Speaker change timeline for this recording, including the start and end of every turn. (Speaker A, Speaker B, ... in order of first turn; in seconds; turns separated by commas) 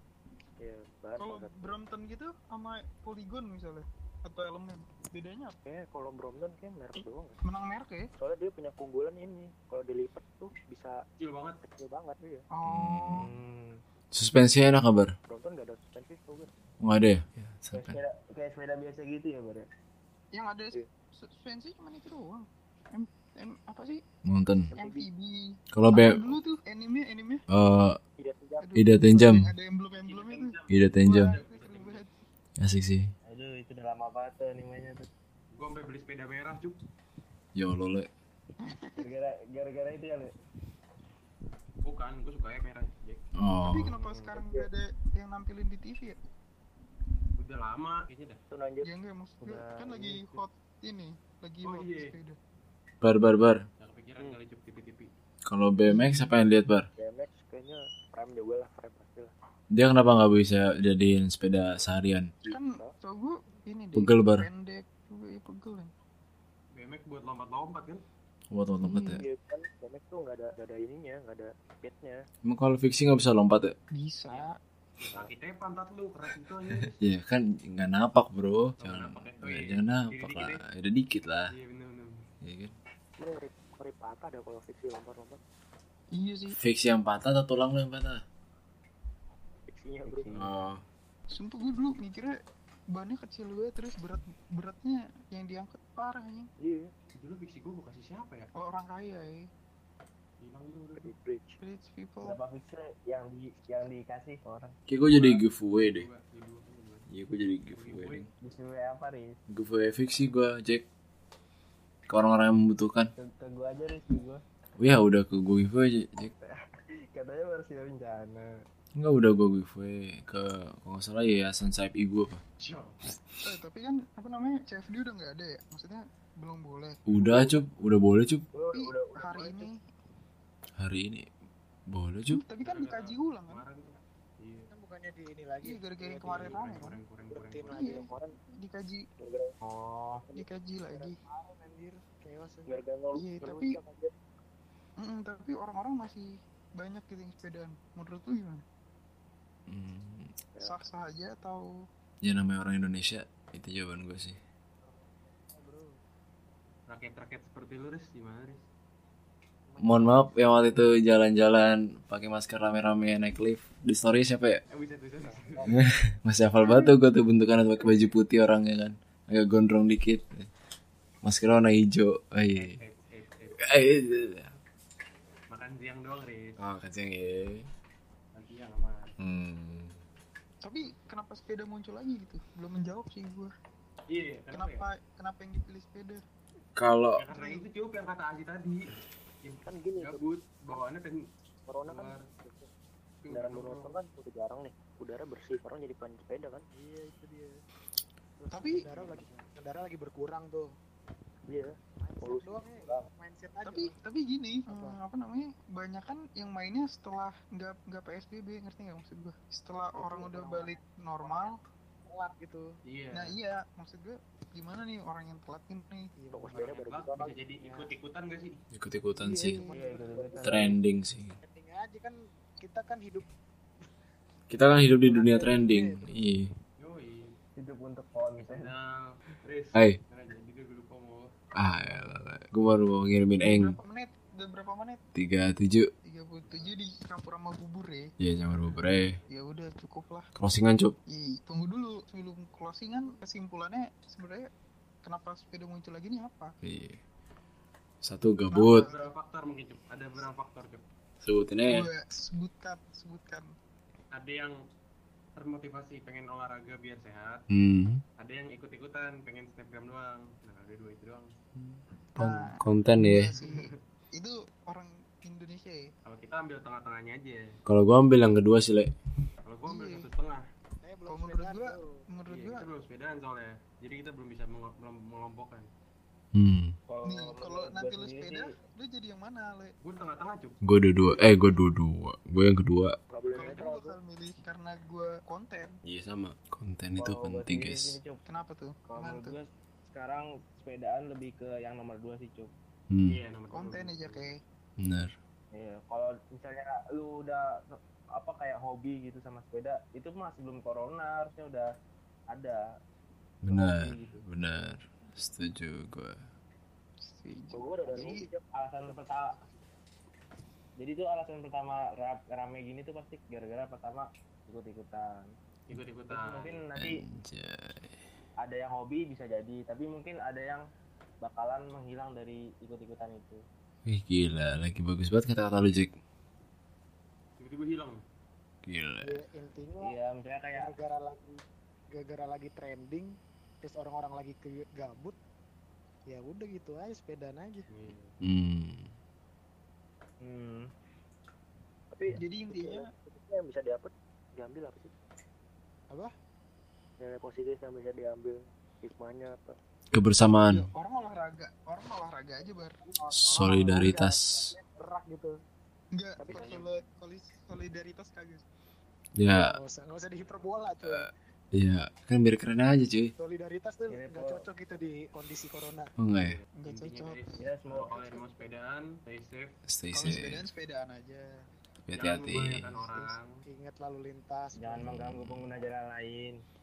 Speaker A: 0.6-1.7, Speaker B: 1.2-5.5, Speaker A: 5.6-7.4, Speaker B: 7.4-8.1, Speaker A: 8.2-11.0, Speaker C: 11.2-11.6, Speaker A: 11.6-12.4, Speaker B: 12.5-13.3, Speaker D: 12.7-13.3, Speaker E: 13.2-13.8, Speaker D: 14.1-15.1, Speaker A: 15.3-16.5, Speaker D: 16.8-18.0, Speaker E: 17.7-19.7, Speaker B: 20.3-24.0, Speaker D: 24.2-24.7, Speaker A: 24.7-25.1, Speaker B: 24.7-27.4, Speaker D: 25.7-26.3, Speaker D: 27.5-28.0, Speaker A: 28.2-28.7, Speaker B: 28.6-32.1, Speaker D: 28.8-29.5, Speaker C: 30.0-32.0, Speaker D: 30.7-31.4, Speaker D: 32.6-33.1, Speaker E: 33.2-35.1, Speaker C: 35.5-36.8, Speaker D: 37.5-38.1, Speaker B: 38.6-39.1, Speaker E: 39.0-40.3, Speaker C: 41.8-43.2, Speaker D: 43.4-43.9, Speaker B: 43.6-46.2, Speaker C: 43.9-44.3, Speaker A: 44.4-44.7, Speaker C: 47.4-48.4, Speaker A: 48.5-48.9, Speaker B: 48.8-52.4, Speaker E: 49.4-50.4, Speaker C: 51.6-52.1, Speaker D: 53.0-53.6, Speaker C: 53.8-55.1, Speaker D: 55.5-56.9, Speaker B: 55.9-56.2, Speaker A: 57.0-59.3, Speaker D: 59.7-62.3, Speaker A: 62.4-62.9, Speaker B: 62.5-65.9, Speaker D: 64.0-64.5, Speaker C: 66.7-68.0, Speaker D: 68.5-69.2, Speaker B: 68.8-69.2, Speaker A: 69.1-72.2, Speaker D: 72.4-73.8, Speaker B: 73.9-74.5, Speaker C: 75.0-77.0, Speaker D: 77.0-81.5, Speaker C: 78.8-80.6, Speaker C: 81.5-82.3, Speaker D: 82.4-82.7, Speaker A: 83.2-85.4, Speaker B: 86.1-86.6, Speaker D: 86.6-88.2, Speaker A: 89.7-90.5, Speaker E: 90.0-90.6, Speaker D: 90.3-90.8, Speaker B: 91.3-92.4, Speaker B: 92.9-96.5, Speaker A: 96.6-96.9, Speaker C: 97.2-98.5, Speaker B: 98.5-99.5, Speaker C: 100.4-101.1, Speaker A: 101.0-101.6, Speaker B: 101.6-102.4, Speaker E: 102.2-104.8, Speaker D: 104.9-106.1, Speaker C: 105.1-107.1, Speaker D: 107.1-108.3, Speaker C: 107.7-108.3, Speaker E: 108.4-109.4, Speaker D: 109.5-110.8, Speaker D: 112.1-113.1, Speaker E: 113.2-114.4, Speaker D: 114.8-116.3, Speaker E: 116.2-116.6, Speaker E: 117.1-118.6, Speaker D: 119.0-122.4, Speaker C: 122.6-123.0, Speaker B: 123.4-127.5, Speaker D: 127.1-128.5, Speaker E: 128.5-129.7, Speaker B: 128.7-129.8, Speaker D: 130.8-131.3, Speaker D: 131.9-132.4, Speaker B: 132.3-133.6, Speaker C: 132.6-134.7, Speaker F: 134.7-138.0, Speaker B: 135.6-137.0, Speaker C: 136.2-137.8, Speaker B: 137.7-138.1, Speaker A: 137.7-138.4, Speaker B: 138.6-139.1, Speaker A: 139.2-139.6, Speaker E: 139.6-140.2, Speaker B: 140.3-141.2, Speaker F: 140.9-142.8, Speaker A: 142.7-144.1, Speaker B: 143.1-143.8, Speaker B: 145.0-148.6, Speaker D: 149.7-150.4, Speaker B: 150.6-151.7, Speaker D: 152.2-154.4, Speaker F: 154.8-156.0, Speaker C: 156.9-158.7, Speaker F: 159.7-160.2, Speaker D: 159.8-164.6, Speaker C: 164.7-165.7, Speaker F: 165.2-165.8, Speaker D: 165.7-170.5, Speaker D: 171.2-172.8, Speaker C: 172.5-173.7, Speaker D: 173.6-174.5, Speaker C: 175.5-176.6, Speaker D: 176.6-177.7, Speaker C: 178.3-179.2, Speaker D: 179.2-180.0, Speaker B: 180.6-183.5, Speaker C: 184.1-184.8, Speaker B: 184.5-186.2, Speaker D: 186.8-187.2, Speaker C: 187.2-188.9, Speaker B: 187.3-187.6, Speaker C: 189.4-191.3, Speaker A: 189.6-190.8, Speaker A: 191.7-192.7, Speaker C: 191.9-192.3, Speaker C: 193.2-194.0, Speaker A: 193.3-196.6, Speaker F: 196.7-197.6, Speaker F: 198.4-200.7, Speaker B: 198.5-198.9, Speaker A: 201.5-203.1, Speaker F: 202.0-203.9, Speaker B: 203.6-211.6, Speaker F: 204.7-205.0, Speaker F: 210.0-211.5, Speaker F: 212.0-212.6, Speaker C: 212.8-213.3, Speaker B: 213.1-216.1, Speaker F: 216.2-216.7, Speaker A: 216.3-217.4, Speaker C: 216.5-218.6, Speaker E: 217.5-217.9, Speaker D: 218.7-219.7, Speaker F: 219.2-220.7, Speaker E: 219.7-220.8, Speaker D: 220.4-221.4, Speaker F: 221.4-223.3, Speaker D: 224.5-226.5, Speaker F: 225.0-226.1, Speaker C: 226.8-227.4, Speaker E: 227.6-228.7, Speaker C: 228.4-231.3, Speaker D: 231.5-233.8, Speaker B: 233.4-235.0, Speaker D: 235.1-235.9, Speaker B: 236.0-238.1, Speaker C: 236.4-236.7, Speaker D: 238.2-239.2, Speaker B: 239.3-240.3, Speaker D: 240.3-240.9, Speaker B: 241.1-244.5, Speaker B: 245.0-246.5, Speaker D: 246.6-247.0, Speaker D: 248.0-248.9, Speaker B: 248.5-249.1, Speaker C: 248.7-250.8, Speaker D: 251.2-251.9, Speaker B: 251.7-253.5, Speaker C: 254.1-254.5, Speaker C: 255.3-257.4, Speaker D: 257.5-258.0, Speaker C: 258.2-261.3, Speaker D: 261.6-263.3, Speaker B: 262.2-265.9, Speaker C: 263.3-263.8, Speaker C: 266.0-267.5, Speaker D: 267.7-268.9, Speaker C: 269.4-270.5, Speaker B: 269.6-270.1, Speaker F: 270.8-272.0, Speaker B: 271.1-272.7, Speaker C: 272.3-275.7, Speaker D: 276.3-276.8, Speaker E: 276.9-278.5, Speaker B: 277.0-279.7, Speaker C: 279.8-280.6, Speaker D: 280.6-282.9, Speaker A: 283.1-283.9, Speaker B: 283.3-285.8, Speaker D: 285.8-288.0, Speaker E: 287.0-288.3, Speaker B: 288.2-289.3, Speaker E: 288.9-292.5, Speaker D: 292.9-293.2, Speaker C: 293.0-294.3, Speaker B: 293.5-294.4, Speaker D: 294.8-295.1, Speaker E: 295.5-301.7, Speaker E: 302.3-302.6, Speaker D: 303.4-306.2, Speaker E: 303.5-304.2, Speaker B: 307.0-308.3, Speaker A: 307.5-309.3, Speaker E: 307.9-309.4, Speaker E: 310.8-315.3, Speaker C: 315.7-316.6, Speaker E: 316.1-317.0, Speaker D: 316.7-318.0, Speaker E: 318.4-320.6, Speaker E: 321.2-323.4, Speaker D: 323.9-325.9, Speaker C: 327.4-328.0, Speaker D: 328.6-329.2, Speaker F: 329.0-330.0, Speaker E: 329.8-330.8, Speaker F: 330.6-331.4, Speaker F: 331.9-335.2, Speaker F: 336.1-337.7, Speaker C: 337.7-338.1, Speaker D: 338.2-338.9, Speaker E: 340.2-340.7, Speaker A: 341.9-344.9, Speaker B: 342.1-342.9, Speaker A: 347.0-349.6, Speaker D: 349.9-350.6, Speaker B: 350.4-352.8, Speaker F: 352.4-355.3, Speaker D: 353.1-354.5, Speaker B: 355.9-358.4, Speaker A: 356.2-356.6, Speaker C: 356.3-356.8, Speaker D: 359.2-359.5, Speaker F: 359.3-361.1, Speaker D: 360.8-363.1, Speaker F: 363.2-365.9, Speaker E: 363.9-364.5, Speaker D: 366.0-366.4, Speaker C: 366.1-369.6, Speaker B: 366.6-367.3, Speaker E: 367.3-368.3, Speaker D: 369.6-370.4, Speaker B: 369.9-371.2, Speaker D: 371.9-372.7, Speaker C: 371.9-373.4, Speaker B: 372.6-373.1, Speaker F: 373.4-375.0, Speaker E: 374.6-376.4, Speaker D: 374.8-375.5